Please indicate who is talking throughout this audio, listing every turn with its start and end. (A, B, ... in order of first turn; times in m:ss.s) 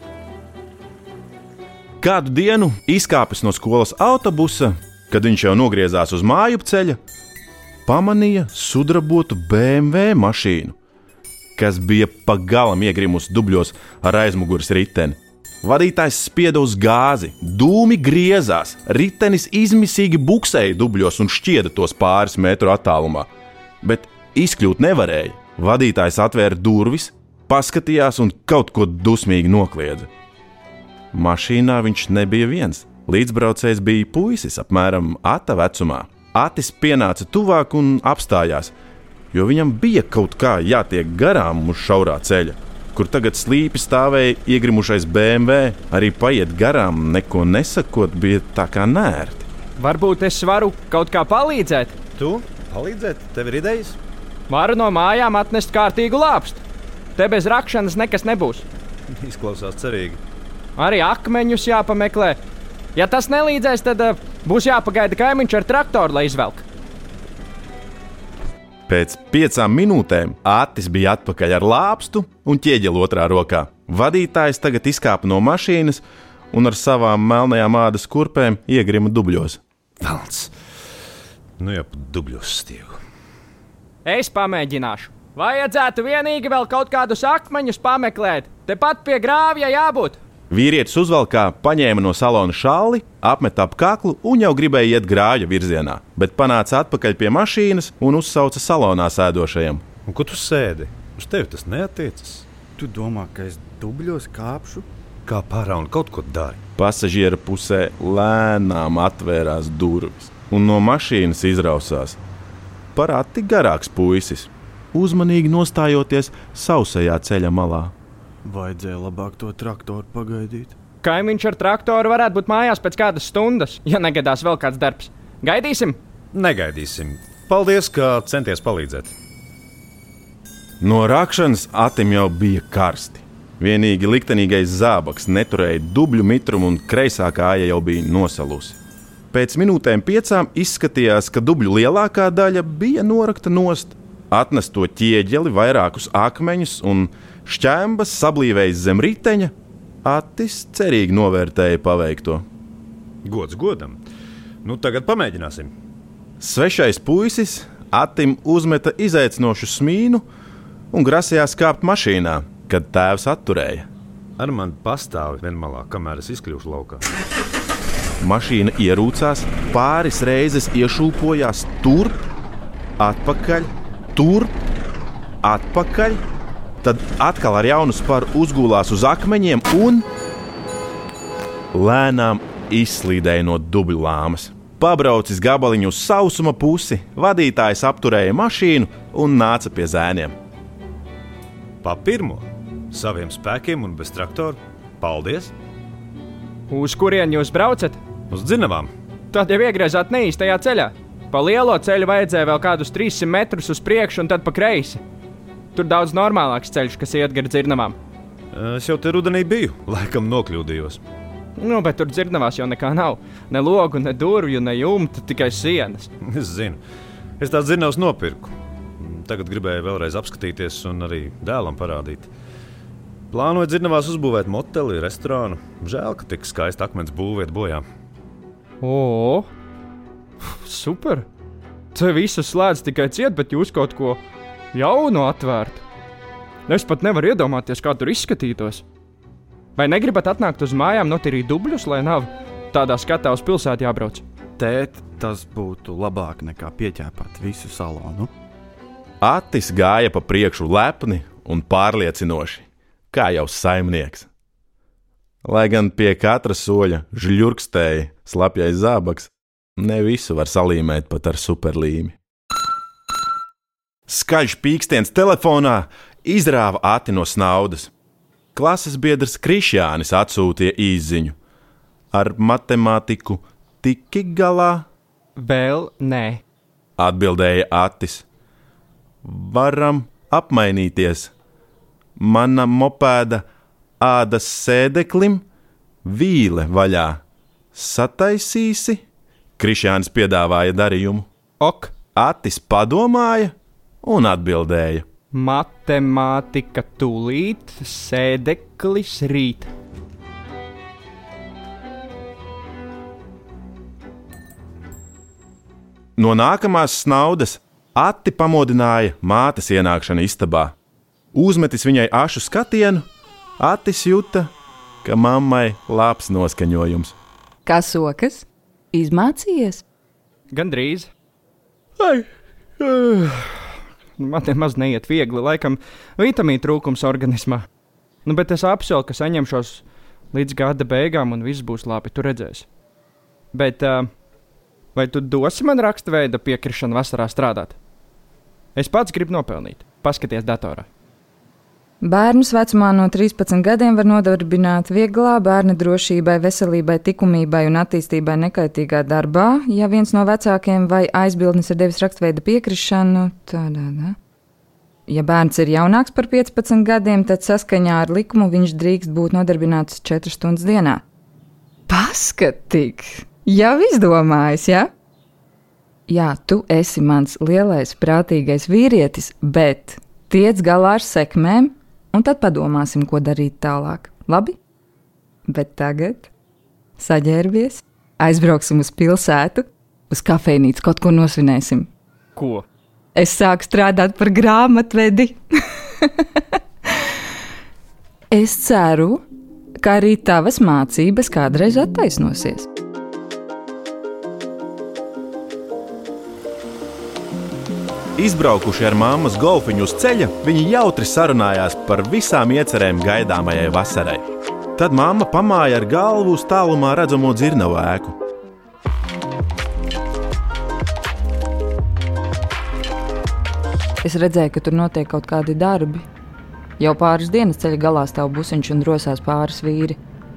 0:02.0-0:07.0 A
0:07.9-0:10.8 A
0:11.6-0:23.3 A
0:23.8-0:30.1 A
0:31.1-0:38.7 A
0:39.3-0:49.5 A
0:49.8-0:52.0 B
0:52.2-0:54.0 C
0:54.5-0:56.6 B
0:57.2-0:58.7 B
0:59.2-1:00.2 C
1:00.8-1:02.4 B
1:03.0-1:06.6 B
1:08.9-1:19.6 A
1:20.0-1:20.5 C
1:21.6-1:23.0 C
1:24.0-1:30.2 B
1:30.5-1:39.8 A
1:40.1-1:42.5 C
1:42.8-1:44.9 D
1:45.3-1:46.6 C
1:46.8-1:52.2 A
1:53.0-1:57.9 A
1:58.4-2:00.8 D
2:01.0-2:06.0 B
2:06.3-2:09.1 C
2:10.8-2:18.8 A
2:19.3-2:29.5 A
2:30.0-2:32.4 A
2:33.2-2:34.0 C
2:34.6-2:35.7 C
2:36.4-2:40.3 A
2:40.9-2:43.9 A
2:44.4-2:47.0 C
2:48.2-2:52.2 A
2:53.0-2:54.5 A
2:55.4-2:56.2 A
2:56.8-3:00.1 A
3:01.7-3:10.4 A
3:11.8-3:15.5 C
3:16.7-3:18.0 B
3:18.3-3:18.9 C
3:19.3-3:25.0 B
3:25.7-3:28.0 B
3:28.5-3:31.0 C
3:31.6-3:36.1 B
3:36.2-3:36.8 C
3:37.4-3:42.3 C
3:43.3-3:47.8 C
3:48.8-3:49.5 B
3:50.4-3:51.3 B
3:51.9-3:54.2 B
3:54.7-3:55.8 B
3:56.7-3:58.8 B
3:59.8-4:04.2 B
4:04.6-4:08.3 D
4:09.2-4:14.3 A
4:15.4-4:22.2 A
4:24.1-4:27.9 A
4:28.6-4:31.4 A
4:32.1-4:34.9 A
4:35.4-4:36.4 B
4:37.0-4:38.3 A
4:39.2-4:41.3 A
4:42.2-4:43.4 A
4:44.0-4:45.4 A
4:46.0-4:47.2 A
4:47.7-4:49.0 A
4:49.6-4:51.3 A
4:51.6-4:51.9 B
4:52.2-4:55.0 A
4:55.3-4:59.7 B
5:06.2-5:10.8 A
5:11.3-5:13.0 A
5:13.6-5:14.5 A
5:15.0-5:17.1 A
5:17.7-5:19.8 E
5:20.5-5:21.1 B
5:22.0-5:22.3 B
5:22.8-5:27.6 B
5:28.2-5:32.7 B
5:33.5-5:34.1 B
5:35.0-5:37.8 B
5:38.8-5:40.9 B
5:42.0-5:54.2 E
5:55.1-6:01.0 E
6:01.9-6:04.9 E
6:06.1-6:14.6 E
6:15.5-6:16.3 E
6:17.0-6:21.9 E
6:22.4-6:22.6 B
6:23.2-6:25.4 E
6:28.3-6:29.2 E
6:29.8-6:32.7 E
6:38.2-6:44.2 A
6:44.8-6:48.2 A
6:54.0-6:56.0 E
6:56.8-7:00.0 E